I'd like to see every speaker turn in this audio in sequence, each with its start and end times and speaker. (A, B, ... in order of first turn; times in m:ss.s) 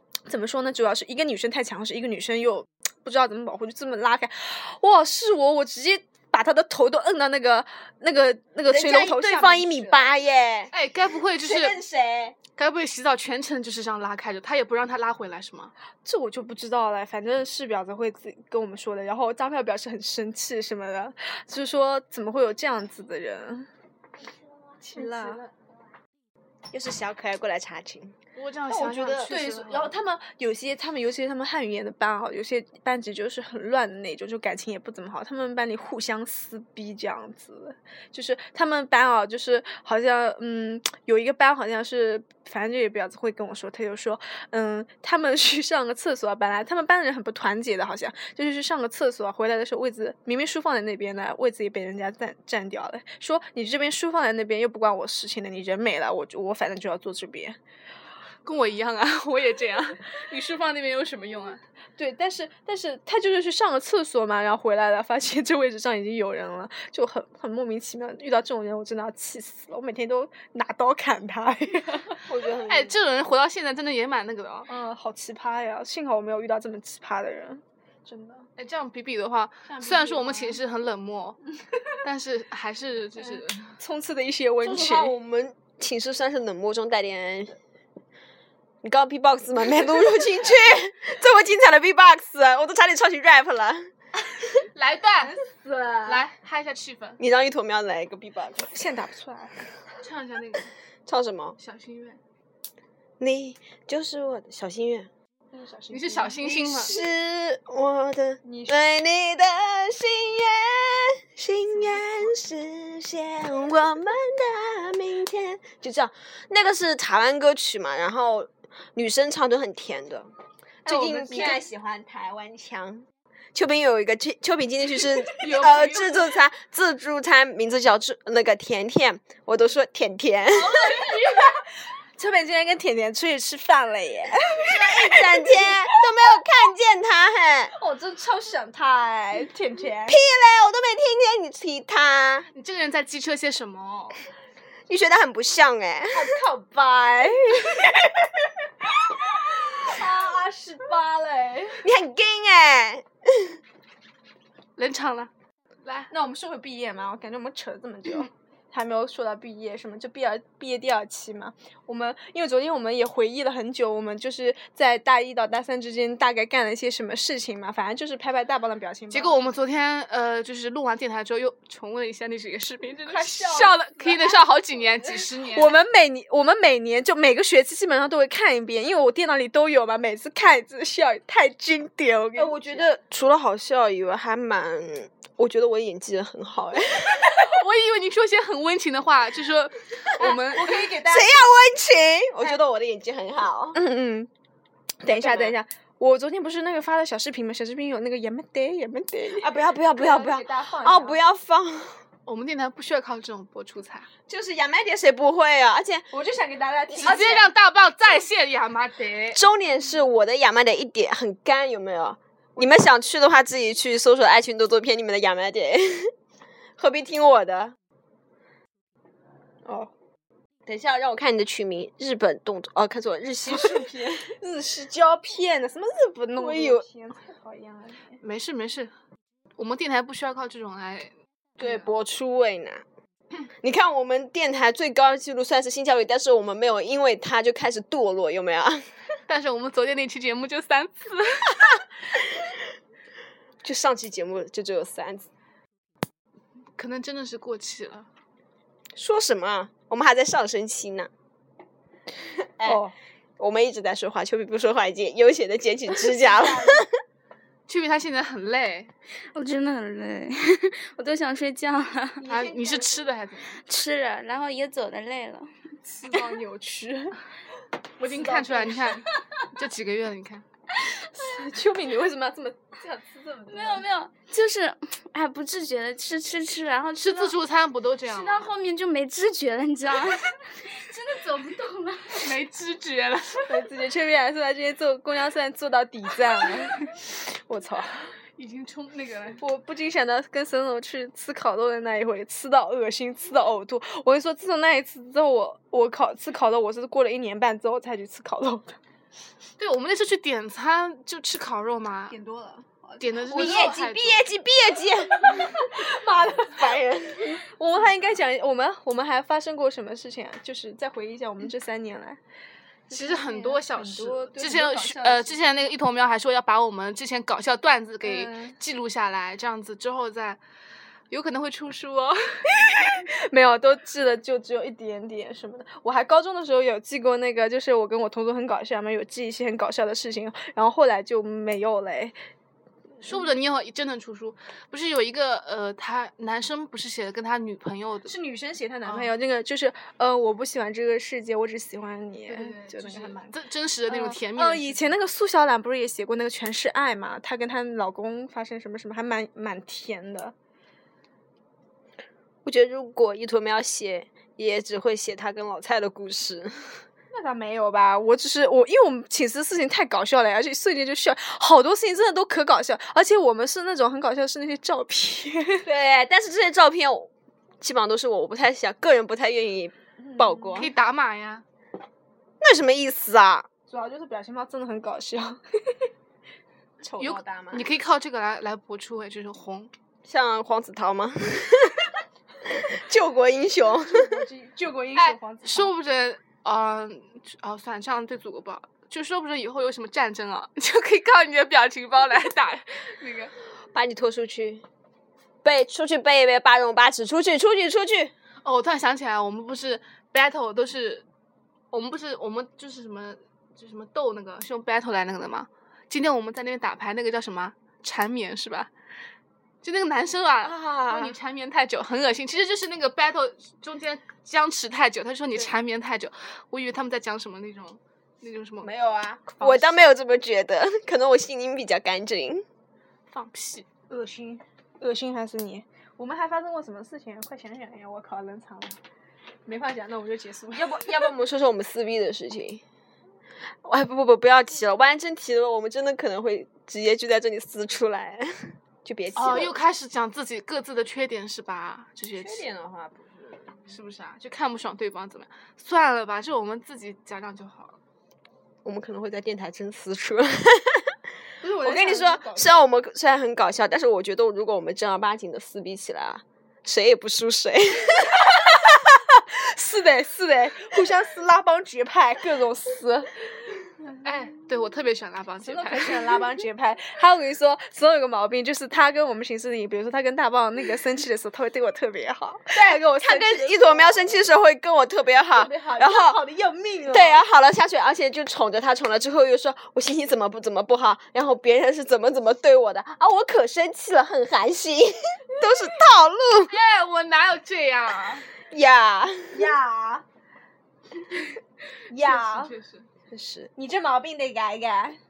0:00.3-0:10.1 A
0:08.7-0:10.7 B
0:10.7-0:11.8 C
0:11.4-0:12.4 B
0:12.6-0:15.7 C
0:16.0-0:23.7 A
0:24.8-0:25.4 A
0:26.7-0:28.1 B
0:28.4-0:30.0 C
0:28.7-0:57.6 A
0:28.8-0:29.2 B
0:58.4-1:01.6 C
1:02.0-1:12.2 A
1:12.2-1:13.0 B
1:12.6-1:14.7 C
1:14.7-1:18.5 A
1:18.6-1:21.4 C
1:19.7-1:20.6 A
1:22.0-1:23.7 C
1:23.8-1:25.1 A
1:24.6-1:27.6 B
1:28.8-1:33.9 B
1:34.6-1:35.4 C
1:35.2-1:36.2 A
1:36.0-1:37.2 C
1:37.2-1:38.7 B
1:38.6-1:39.6 A
1:40.0-1:40.7 C
1:41.1-1:41.6 B
1:41.6-1:42.2 C
1:43.2-1:45.1 B
1:45.5-1:46.9 A
1:45.9-1:47.0 C
1:46.4-2:00.3 B
1:48.4-1:48.8 A
2:00.8-2:11.0 B
2:00.8-2:01.6 A
2:05.4-2:06.3 C
2:10.5-2:11.6 A
2:12.2-2:16.3 A
2:14.5-2:17.7 B
2:17.7-2:20.2 A
2:20.1-2:22.5 B
2:22.5-2:24.2 C
2:24.9-2:26.4 B
2:26.1-2:28.0 A
2:29.3-2:31.8 A
2:31.8-2:33.6 B
2:34.8-2:35.3 C
2:35.8-2:36.1 C
2:36.1-2:49.4 A
2:49.1-2:55.7 C
2:53.0-2:54.4 A
2:55.4-3:02.9 A
3:02.4-3:07.5 B
3:07.2-3:10.9 C
3:10.2-3:11.4 A
3:11.0-3:13.8 B
3:13.7-3:14.3 A
3:15.0-3:21.2 A
3:15.1-3:15.5 C
3:19.4-3:22.0 B
3:22.2-3:24.1 C
3:24.3-3:26.1 B
3:26.1-3:27.5 A
3:27.0-3:27.3 B
3:27.0-3:29.4 C
3:29.3-3:36.1 B
3:36.8-3:37.7 B
3:39.6-3:39.9 A
3:40.6-3:44.3 B
3:43.4-3:48.2 A
3:46.4-3:46.8 B
3:48.2-3:48.9 C
3:49.6-3:51.8 C
3:51.6-3:52.8 B
3:53.6-3:58.8 B
3:59.3-4:01.6 C
4:03.6-4:05.3 B
4:06.8-4:08.1 C
4:09.0-4:11.1 B
4:12.4-4:12.8 B
4:12.6-4:12.9 A
4:13.4-4:16.9 B
4:16.1-4:16.9 A
4:17.7-4:18.9 C
4:19.3-4:22.2 D
4:22.2-4:23.0 A
4:22.2-4:23.6 C
4:23.6-4:25.5 D
4:25.8-4:27.2 A
4:28.0-4:29.0 A
4:28.0-4:30.4 C
4:31.1-4:33.8 A
4:33.5-4:37.3 D
4:37.0-4:38.5 C
4:38.1-4:42.3 D
4:42.1-4:43.5 C
4:43.5-4:48.0 A
4:48.4-4:49.4 C
4:49.4-4:58.8 A
4:59.6-5:02.1 C
5:02.1-5:03.8 A
5:03.0-5:04.3 C
5:03.3-5:05.6 B
5:05.1-5:06.7 A
5:06.4-5:07.4 B
5:07.4-5:12.2 A
5:12.9-5:15.5 A
5:12.9-5:20.4 C
5:18.0-5:18.6 A
5:21.1-5:22.2 C
5:22.5-5:32.1 A
5:33.0-5:38.1 C
5:38.0-5:43.3 A
5:42.3-5:44.9 C
5:43.9-5:50.3 A
5:52.4-5:56.6 B
5:57.1-6:05.6 A
6:05.6-6:07.1 B
6:07.6-6:10.7 B
6:10.0-6:10.6 A
6:10.6-6:11.4 C
6:12.4-6:13.5 B
6:13.7-6:15.9 A
6:16.8-6:17.2 A
6:17.0-6:19.7 C
6:17.0-6:17.6 B
6:20.0-6:21.9 B
6:22.5-6:24.2 B
6:23.9-6:25.7 A
6:25.0-6:33.3 C
6:33.7-6:34.6 B
6:35.4-6:38.1 B
6:38.4-6:41.0 C
6:41.7-6:48.7 C
6:49.6-6:58.7 C
6:50.4-6:51.2 B
6:58.6-7:02.4 B
6:59.3-6:59.9 C
7:03.1-7:03.7 C
7:03.9-7:08.8 A
7:09.4-7:11.1 A
7:10.6-7:12.6 B
7:13.6-7:19.6 B
7:19.1-7:22.4 C
7:22.1-7:23.7 B
7:23.7-7:27.8 C
7:28.6-7:30.9 B
7:31.4-7:32.6 A
7:31.6-7:38.3 B
7:38.2-7:43.2 A
7:44.0-7:46.2 C
7:45.4-7:54.0 A
7:52.5-7:56.2 B
7:55.3-7:57.2 A
7:56.9-8:06.5 B
8:06.4-8:08.3 C
8:08.5-8:09.5 B
8:09.3-8:10.0 A
8:11.9-8:12.5 A
8:12.0-8:12.9 C
8:13.1-8:13.5 B
8:13.6-8:15.0 A